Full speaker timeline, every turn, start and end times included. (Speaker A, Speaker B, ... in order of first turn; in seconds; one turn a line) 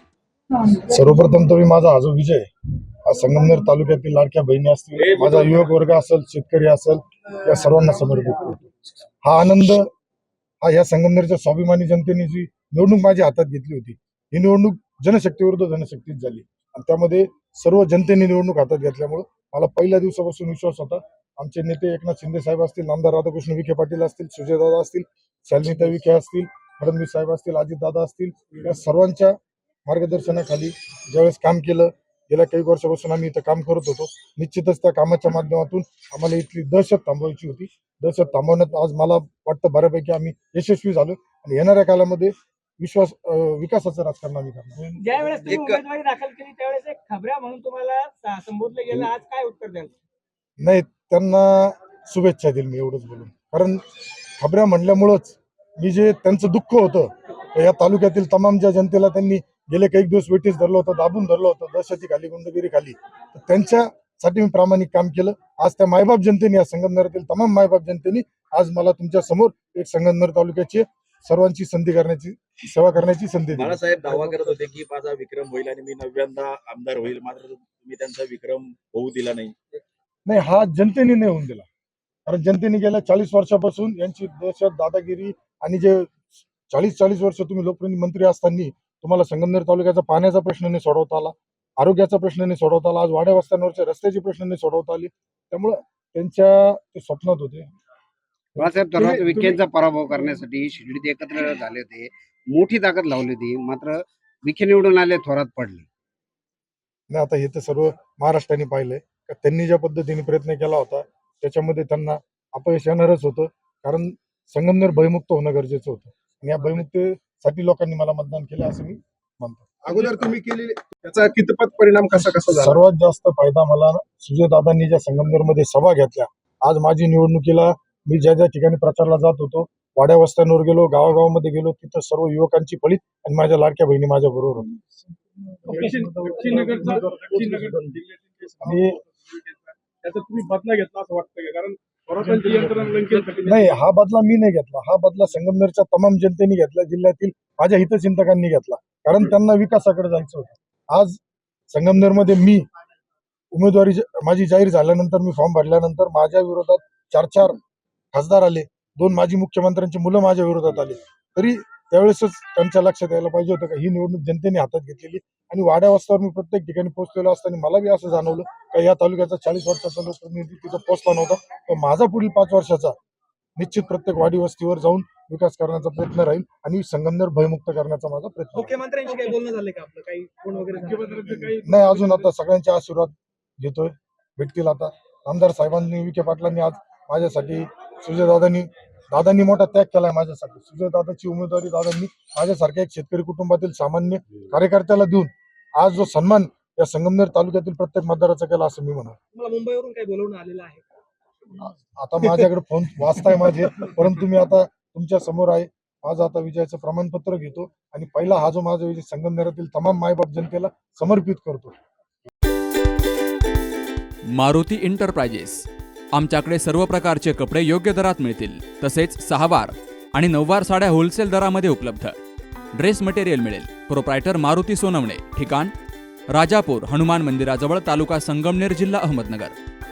Speaker A: 0.5-2.5
Speaker A: 3.0-8.7
Speaker B: 5.0-5.6
Speaker A: 9.2-9.9
Speaker A: 10.6-29.3
Speaker A: 29.9-45.5
Speaker C: 45.0-49.9
Speaker B: 45.5-45.8
Speaker A: 50.6-53.8
Speaker A: 54.4-74.5
Speaker B: 73.5-79.6
Speaker A: 80.2-81.7
Speaker A: 82.3-97.7
Speaker D: 98.5-105.9
Speaker A: 107.1-119.8
Speaker E: 119.9-122.8
Speaker A: 122.5-134.7
Speaker A: 135.6-137.8
Speaker C: 135.7-138.9
Speaker E: 136.4-137.0
Speaker A: 138.6-139.0
Speaker C: 140.1-141.8
Speaker E: 142.1-143.3
Speaker C: 142.3-143.7
Speaker A: 142.4-151.2
Speaker A: 151.7-152.6
Speaker A: 153.5-157.6
Speaker A: 158.1-172.9
Speaker A: 173.6-178.8
Speaker C: 178.5-182.3
Speaker A: 181.2-199.2
Speaker C: 199.3-200.8
Speaker A: 201.6-211.7
Speaker F: 214.3-222.1
Speaker F: 222.7-225.7
Speaker F: 226.3-229.6